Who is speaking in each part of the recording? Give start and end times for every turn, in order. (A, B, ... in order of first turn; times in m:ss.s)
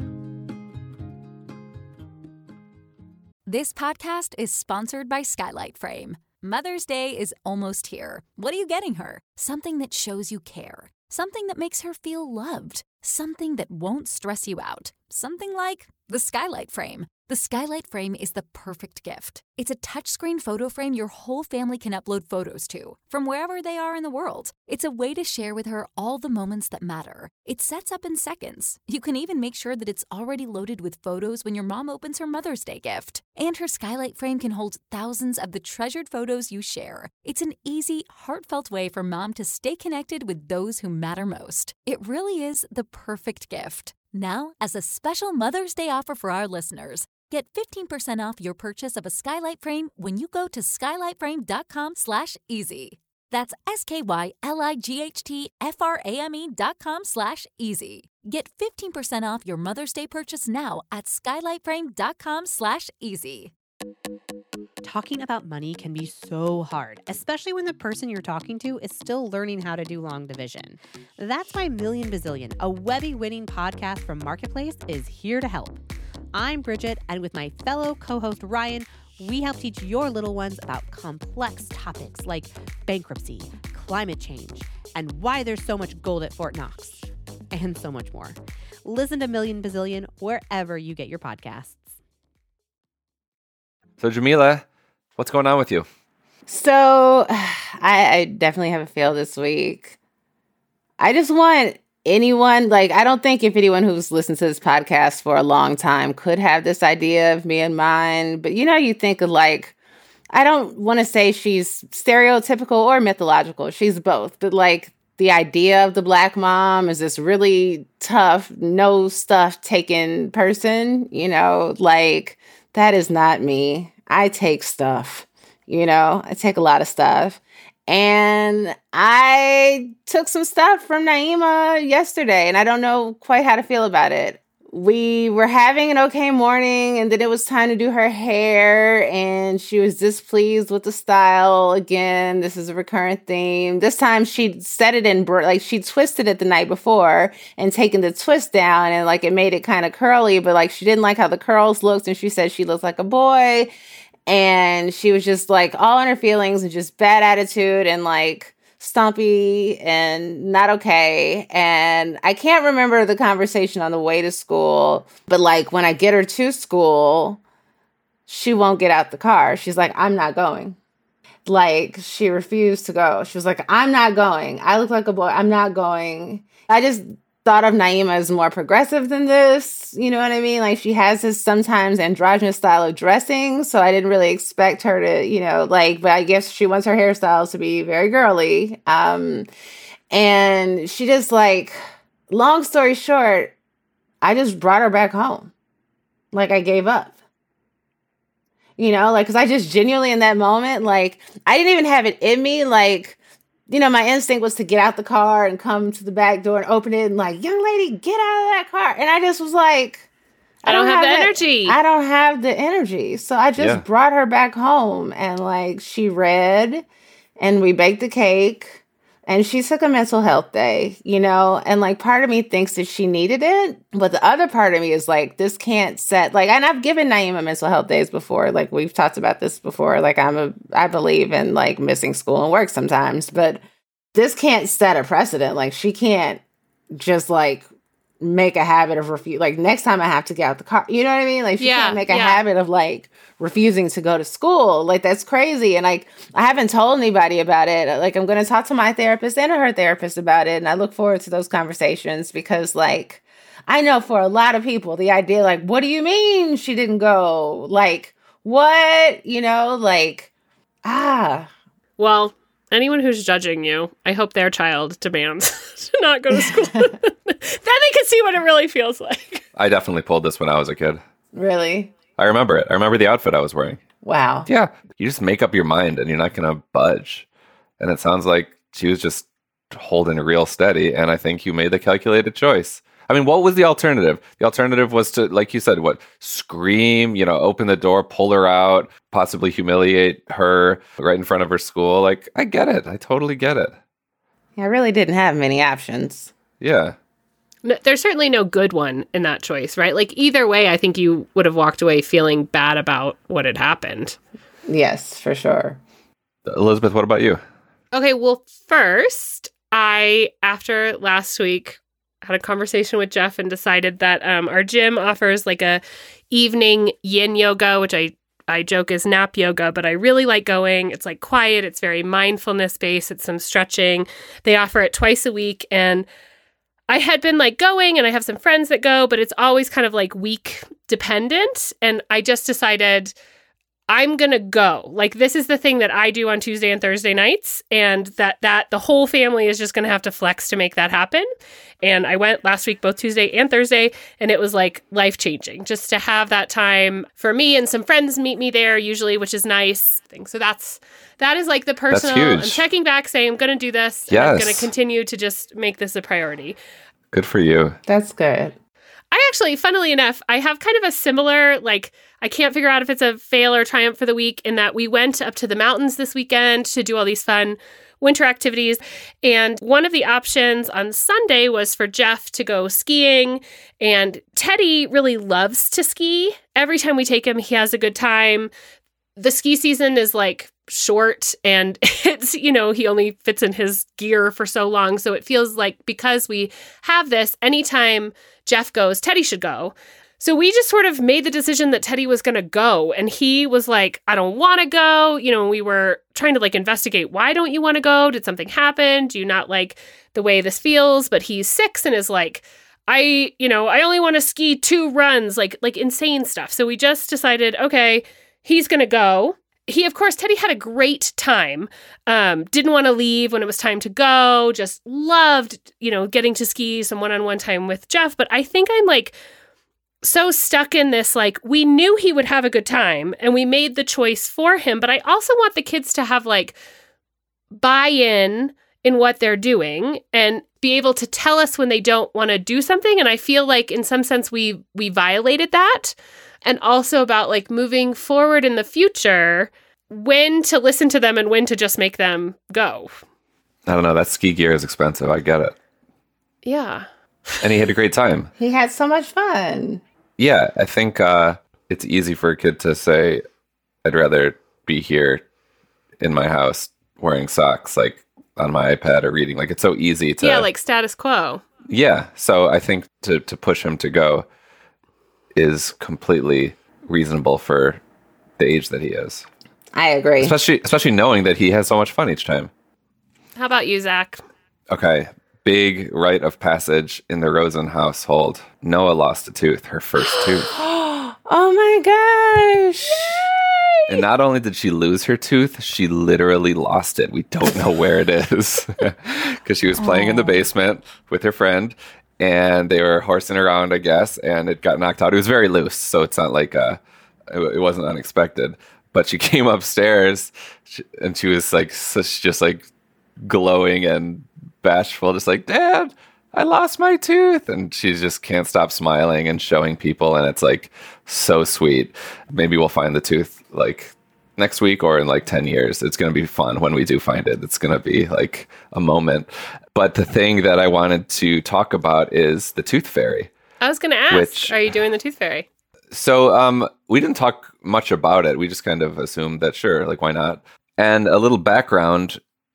0:03.4-1:03.5 A
1:04.8-1:15.8 B
1:16.3-1:31.9 B
1:34.0-1:34.6 C
1:35.2-1:35.8 C
1:36.5-1:40.0 D
1:41.0-1:49.7 D
1:50.3-2:33.7 D
2:34.3-2:47.4 D
2:48.3-2:50.8 D
2:51.4-3:09.5 D
3:10.1-3:11.8 D
3:12.3-3:13.5 D
3:14.2-3:15.5 D
3:16.3-3:17.2 D
3:18.8-3:30.1 D
3:30.6-3:36.8 D
3:30.6-3:31.8 E
3:33.6-3:33.8 C
3:37.4-3:53.6 D
3:54.1-3:56.4 D
3:56.9-3:57.6 D
3:58.2-4:20.3 D
4:01.6-4:02.4 E
4:20.8-4:21.5 D
4:22.0-4:29.4 E
4:26.4-4:26.8 D
4:29.6-4:31.0 C
4:31.3-4:31.9 D
4:32.2-4:33.8 C
4:34.0-4:34.5 D
4:34.5-4:37.3 C
4:37.8-4:53.8 C
4:54.6-4:56.3 D
4:56.6-4:57.0 C
4:57.6-5:04.2 E
5:04.7-5:05.8 D
5:06.4-5:07.4 C
5:07.9-5:26.1 E
5:26.9-5:33.1 E
5:33.9-5:41.3 E
5:41.8-5:56.6 E
5:51.9-5:52.6 C
5:54.1-5:54.7 C
5:57.1-5:57.8 C
5:57.9-5:58.5 D
5:59.1-6:18.5 E
6:19.2-6:59.1 E
7:00.0-7:06.6 E
7:07.5-7:23.0 E
7:23.7-7:25.5 C
7:26.4-7:27.4 E
7:27.4-7:28.3 C
7:28.4-7:29.8 D
7:30.2-7:33.2 C
7:33.8-7:35.2 C
7:36.0-7:40.5 C
7:40.2-7:41.4 E
7:41.7-7:44.2 C
7:45.3-7:47.8 C
7:48.4-7:49.3 C
7:49.7-7:50.3 D
7:50.2-7:52.5 C
7:53.4-7:54.2 E
7:54.7-8:00.5 C
8:00.0-8:04.0 D
8:03.9-8:22.6 C
8:09.8-8:10.4 D
8:23.2-8:43.3 C
8:43.6-8:45.4 E
8:44.1-8:44.6 C
8:45.9-8:52.2 C